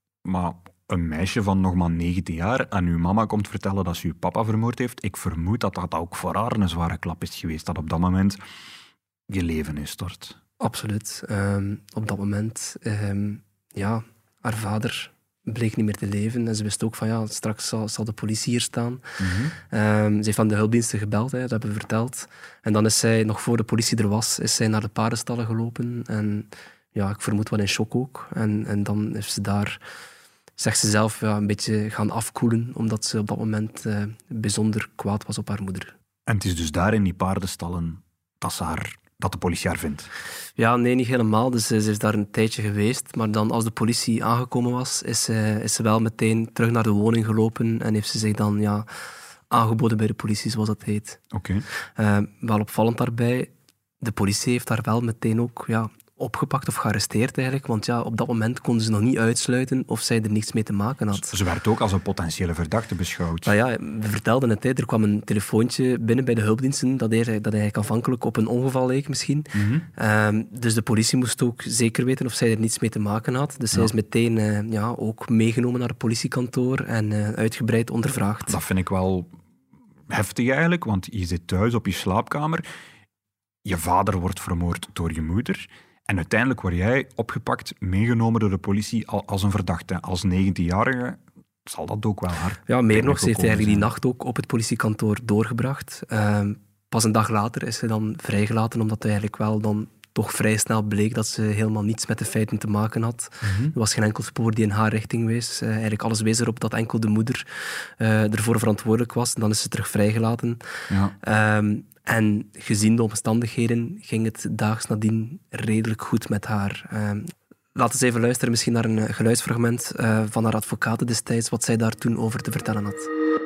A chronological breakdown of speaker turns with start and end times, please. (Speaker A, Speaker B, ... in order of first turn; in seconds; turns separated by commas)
Speaker A: 0.2-8.4, Speaker A: 9.3-10.4, Speaker B: 10.6-19.0, Speaker A: 19.2-19.5, Speaker B: 19.7-29.8, Speaker B: 30.6-35.9, Speaker A: 36.3-40.1, Speaker B: 40.6-48.9, Speaker B: 49.5-51.2, Speaker A: 51.3-51.6, Speaker B: 52.0-53.5, Speaker B: 54.0-61.3, Speaker A: 61.1-63.5, Speaker B: 63.5-78.6, Speaker A: 69.5-69.8, Speaker A: 78.5-79.3, Speaker A: 80.1-82.6, Speaker A: 83.6-93.9, Speaker B: 92.7-107.4, Speaker A: 103.4-103.7, Speaker B: 108.0-110.6, Speaker A: 110.9-111.1, Speaker B: 111.2-123.1